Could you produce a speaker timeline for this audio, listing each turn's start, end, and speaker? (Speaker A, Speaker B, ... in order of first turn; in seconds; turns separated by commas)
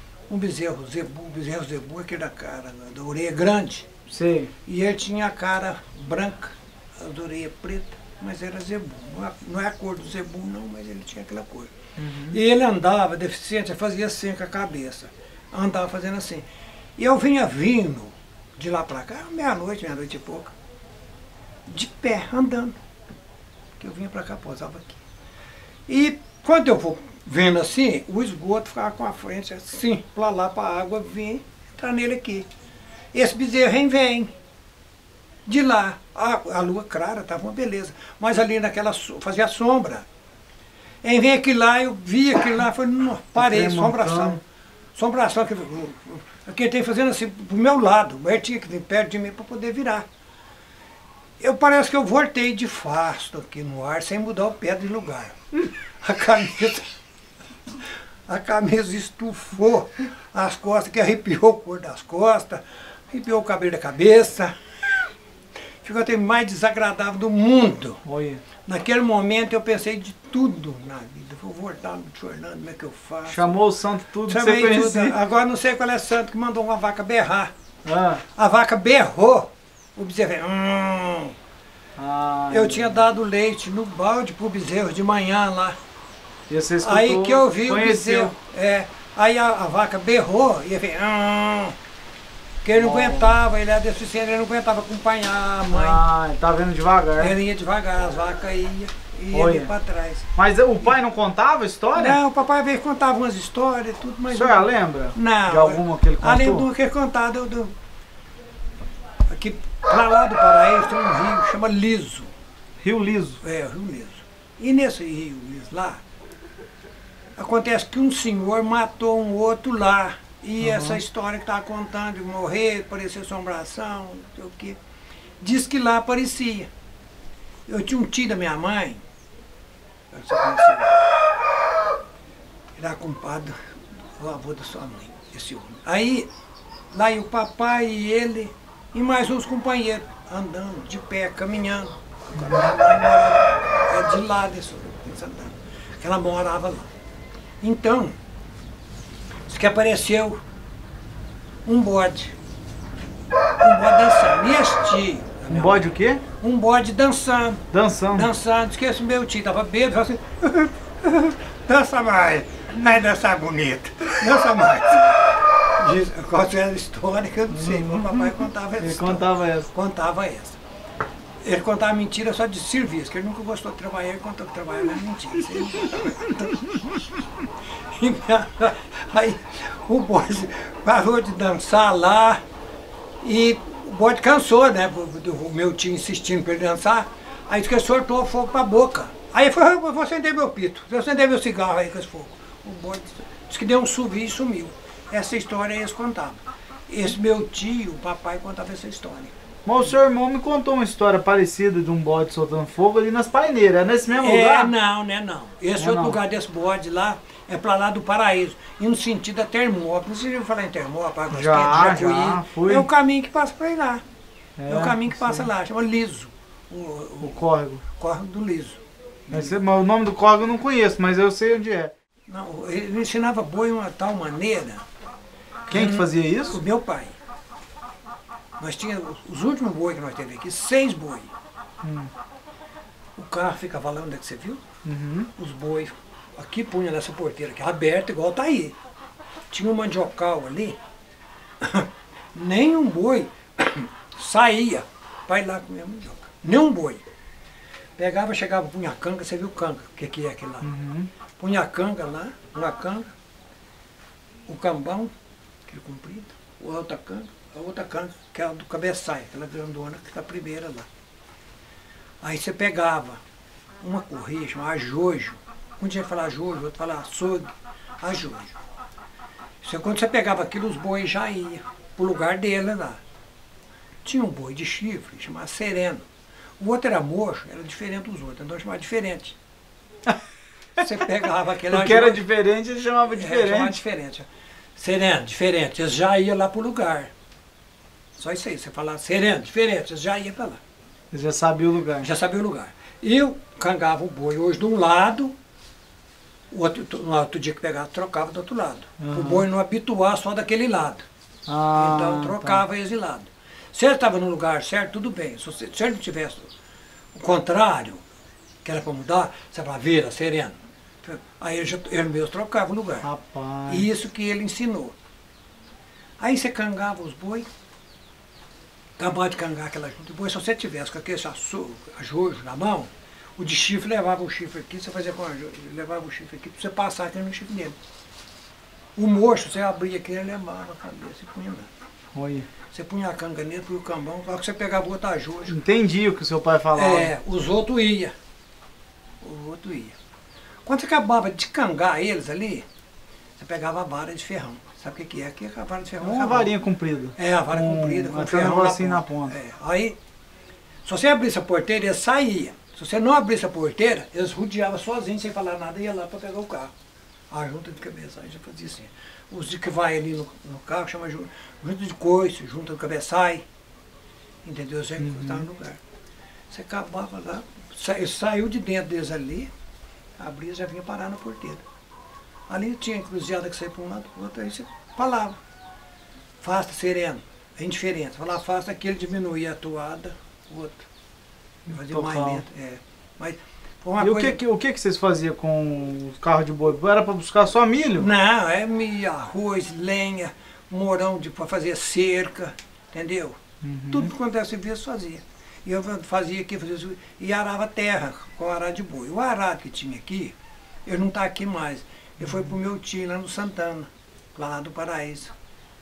Speaker A: 0.3-3.9, Speaker B: 4.1-4.5, Speaker A: 4.6-11.7, Speaker B: 12.0-12.4, Speaker A: 12.3-16.4, Speaker A: 17.0-20.5, Speaker A: 21.7-22.8, Speaker A: 23.8-25.0, Speaker A: 25.9-32.5, Speaker A: 33.1-34.3, Speaker A: 35.5-40.0, Speaker A: 41.0-44.4, Speaker B: 43.4-44.4, Speaker A: 44.9-50.0, Speaker A: 51.4-57.0, Speaker A: 58.3-65.1, Speaker A: 65.8-68.0, Speaker B: 68.0-68.4, Speaker A: 68.6-73.5, Speaker B: 73.3-75.2, Speaker A: 74.2-77.5, Speaker B: 77.8-78.2, Speaker A: 78.3-81.3, Speaker B: 82.0-83.0, Speaker A: 82.5-85.8, Speaker B: 86.5-88.3, Speaker A: 86.8-91.8, Speaker A: 92.6-96.0, Speaker B: 92.7-93.3, Speaker B: 95.7-97.3, Speaker A: 97.2-100.3, Speaker B: 99.3-99.7, Speaker B: 100.3-102.2, Speaker A: 101.9-107.7, Speaker B: 104.3-106.7, Speaker A: 109.3-112.3, Speaker B: 112.8-113.4, Speaker A: 113.4-116.0, Speaker A: 117.3-124.8, Speaker B: 120.6-121.0, Speaker A: 125.4-126.7, Speaker A: 127.7-129.0, Speaker A: 130.1-131.0, Speaker A: 132.8-136.3, Speaker A: 136.9-146.9, Speaker A: 147.6-148.2, Speaker A: 149.5-150.4, Speaker A: 151.7-152.3, Speaker A: 153.6-170.6, Speaker B: 155.5-156.2, Speaker B: 157.7-158.3, Speaker B: 167.5-169.7, Speaker A: 171.4-182.4, Speaker A: 183.2-199.3, Speaker B: 199.7-204.7, Speaker A: 204.1-214.0, Speaker B: 205.8-206.2, Speaker B: 211.3-212.9, Speaker B: 214.6-215.5, Speaker A: 214.7-217.4, Speaker B: 217.2-217.8, Speaker A: 218.0-219.5, Speaker B: 219.3-221.9, Speaker A: 222.3-224.8, Speaker B: 225.7-226.6, Speaker A: 225.7-227.1, Speaker A: 228.6-231.3, Speaker B: 231.8-232.1, Speaker A: 233.2-234.6, Speaker B: 234.8-235.3, Speaker A: 235.3-238.8, Speaker A: 239.5-240.8, Speaker A: 241.6-247.0, Speaker A: 248.0-250.7, Speaker B: 250.6-251.1, Speaker A: 251.4-253.1, Speaker A: 254.5-255.1, Speaker A: 255.7-260.9, Speaker A: 262.2-263.2, Speaker A: 263.8-268.6, Speaker A: 269.6-273.0, Speaker A: 274.0-276.1, Speaker A: 276.6-279.4, Speaker A: 280.8-282.2, Speaker B: 281.7-283.8, Speaker A: 283.1-287.1, Speaker A: 288.1-290.6, Speaker B: 291.1-292.1, Speaker A: 292.0-295.4, Speaker A: 296.5-301.1, Speaker B: 299.0-299.4, Speaker B: 301.5-302.6, Speaker A: 301.7-306.5, Speaker A: 307.1-308.0, Speaker A: 308.6-313.1, Speaker B: 313.0-313.9, Speaker A: 313.7-314.9, Speaker A: 316.2-317.5, Speaker A: 319.0-327.7, Speaker A: 328.9-331.7, Speaker B: 332.1-332.5, Speaker A: 332.7-335.6, Speaker B: 335.5-337.1, Speaker A: 336.7-338.1, Speaker A: 339.2-339.9, Speaker A: 340.6-342.6, Speaker A: 343.4-346.5, Speaker B: 346.0-349.4, Speaker A: 347.1-350.0, Speaker A: 350.8-356.7, Speaker A: 357.3-363.4, Speaker A: 364.4-365.8, Speaker B: 365.0-365.4, Speaker A: 366.5-369.5, Speaker A: 370.2-371.6, Speaker A: 372.5-375.4, Speaker A: 376.4-380.9, Speaker B: 381.7-382.4, Speaker A: 381.7-384.4, Speaker B: 384.0-388.1, Speaker A: 388.0-393.4, Speaker B: 393.6-394.1, Speaker A: 393.9-405.3